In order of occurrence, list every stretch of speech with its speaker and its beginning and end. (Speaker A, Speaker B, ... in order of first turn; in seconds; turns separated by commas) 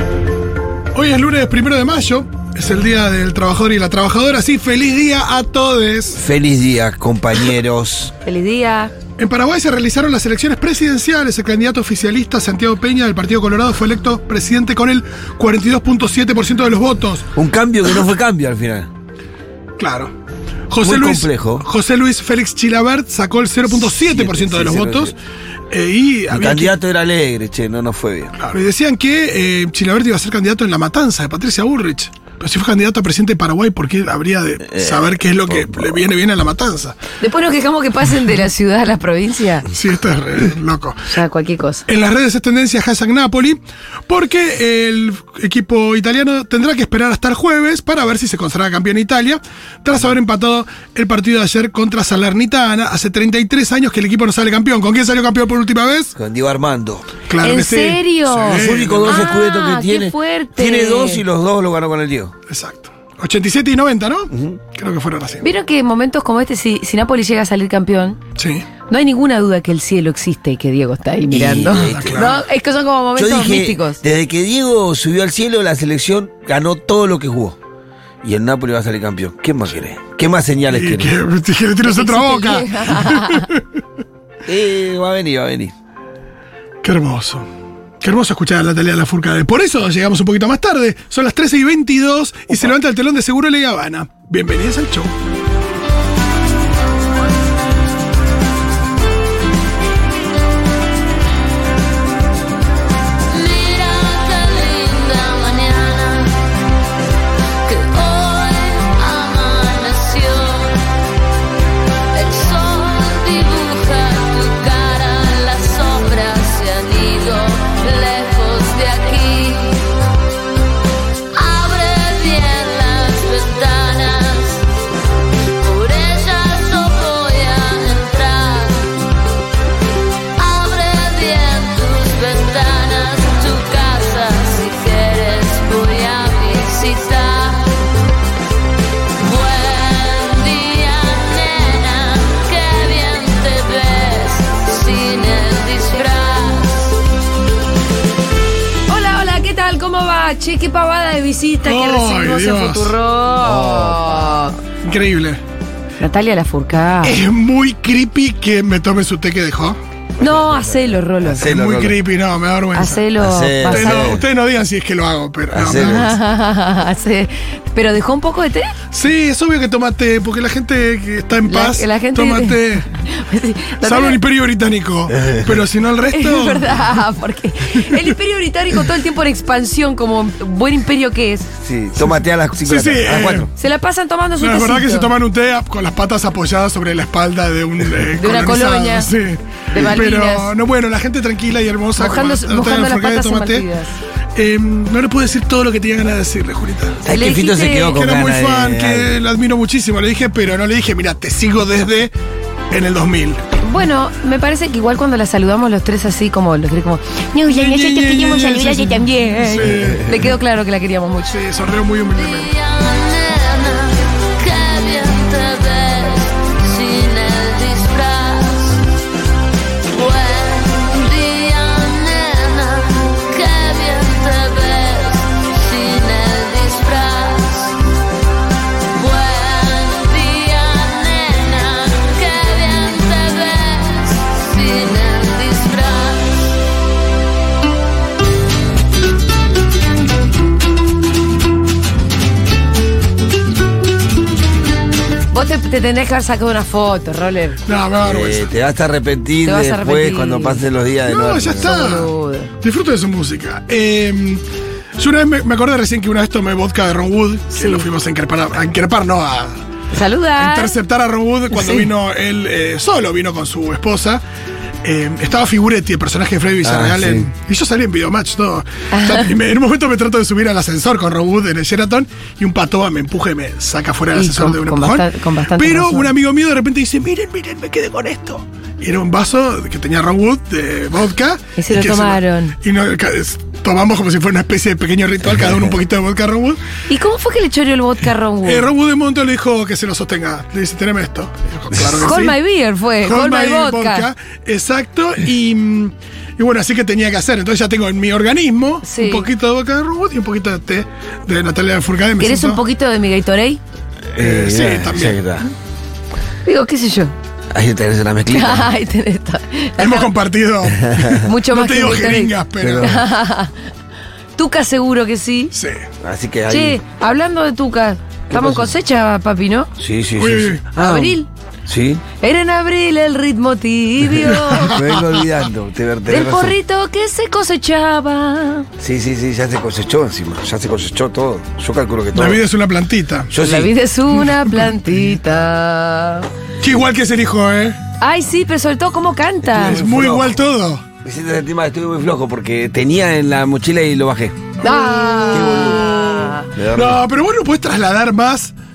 Speaker A: 0.9-6.2, Speaker B: 6.1-8.1, Speaker C: 8.2-8.9, Speaker A: 9.2-17.3, Speaker B: 17.3-18.9, Speaker A: 19.8-20.1, Speaker A: 20.7-25.1, Speaker B: 20.8-21.7, Speaker B: 23.7-25.2, Speaker A: 25.7-26.7, Speaker B: 26.3-28.4, Speaker A: 28.4-37.0, Speaker B: 34.6-36.0, Speaker C: 37.2-39.7, Speaker A: 39.7-41.0, Speaker C: 41.1-41.9, Speaker A: 41.9-56.1, Speaker B: 56.2-57.1, Speaker A: 57.3-59.2, Speaker C: 57.4-61.2, Speaker B: 58.5-62.3, Speaker A: 62.5-65.4, Speaker B: 64.3-64.6, Speaker C: 65.4-68.2, Speaker A: 68.4-68.7, Speaker C: 68.9-74.0, Speaker B: 71.3-72.3, Speaker A: 71.9-72.4, Speaker B: 73.2-77.6, Speaker B: 78.2-81.1, Speaker A: 80.7-83.6, Speaker C: 81.8-83.5, Speaker B: 84.5-85.7, Speaker A: 86.8-87.5, Speaker A: 88.0-95.1, Speaker D: 103.3-106.4, Speaker D: 107.7-110.8, Speaker D: 112.1-119.9, Speaker D: 121.3-124.7, Speaker D: 125.6-128.9, Speaker D: 130.4-137.8, Speaker D: 139.2-146.9, Speaker C: 148.9-154.6, Speaker A: 151.6-152.9, Speaker B: 153.4-154.1, Speaker A: 154.8-155.4, Speaker C: 156.0-157.2, Speaker A: 157.0-159.8, Speaker C: 160.2-161.5, Speaker B: 160.2-162.0, Speaker A: 161.4-163.0, Speaker C: 162.8-164.2, Speaker B: 163.2-164.2, Speaker A: 163.7-166.1, Speaker B: 165.5-166.1, Speaker C: 165.7-168.7, Speaker A: 168.9-172.9, Speaker C: 171.4-174.2, Speaker A: 173.8-176.8, Speaker B: 175.1-175.6, Speaker C: 176.1-181.5, Speaker A: 177.8-178.1, Speaker B: 181.6-183.5, Speaker A: 182.6-183.5, Speaker C: 183.6-185.1, Speaker A: 184.4-193.7, Speaker C: 188.2-189.1, Speaker C: 189.7-190.5, Speaker C: 192.0-193.9, Speaker A: 194.3-197.0, Speaker B: 197.0-199.1, Speaker C: 197.1-198.0, Speaker A: 197.9-202.1, Speaker A: 202.7-203.4, Speaker C: 203.6-211.3, Speaker A: 207.5-210.1, Speaker B: 209.6-210.2, Speaker A: 211.3-212.5, Speaker D: 212.2-218.8, Speaker D: 219.9-227.8, Speaker D: 228.9-236.5, Speaker C: 245.3-247.6, Speaker A: 247.7-248.5, Speaker B: 248.0-251.9, Speaker C: 249.4-250.6, Speaker A: 251.0-252.1, Speaker C: 251.6-252.5, Speaker A: 252.6-254.4, Speaker A: 255.0-259.6, Speaker C: 257.5-257.9, Speaker C: 259.9-260.8, Speaker A: 260.4-264.2, Speaker C: 261.5-261.9, Speaker A: 264.8-286.6, Speaker B: 266.6-267.3, Speaker C: 268.9-269.3, Speaker C: 274.1-276.1, Speaker C: 281.6-282.6, Speaker C: 286.9-288.7, Speaker A: 288.4-292.4, Speaker C: 292.0-294.1, Speaker A: 293.0-302.6, Speaker C: 298.8-299.3, Speaker C: 302.2-303.6, Speaker B: 304.1-305.5, Speaker A: 304.2-305.2, Speaker C: 306.4-307.1, Speaker B: 307.5-308.7, Speaker C: 308.3-310.1, Speaker A: 309.8-313.0, Speaker B: 310.8-311.2, Speaker C: 311.2-313.5, Speaker B: 312.6-313.0, Speaker C: 314.4-315.5, Speaker A: 315.5-315.9, Speaker B: 316.0-316.8, Speaker C: 316.5-319.7, Speaker B: 318.3-318.7, Speaker B: 319.8-322.0, Speaker A: 320.2-320.6, Speaker C: 320.8-321.3, Speaker C: 322.2-324.7, Speaker A: 324.5-324.9, Speaker B: 324.6-326.6, Speaker C: 326.1-328.7, Speaker B: 328.8-332.4, Speaker A: 332.1-333.3, Speaker B: 333.3-333.7, Speaker C: 333.4-336.3, Speaker A: 334.3-334.7, Speaker A: 336.6-337.8, Speaker C: 338.0-339.8, Speaker A: 339.5-340.8, Speaker B: 339.6-340.4, Speaker B: 341.0-344.6, Speaker A: 344.6-348.5, Speaker C: 344.6-346.5, Speaker B: 345.3-345.9, Speaker B: 346.5-347.0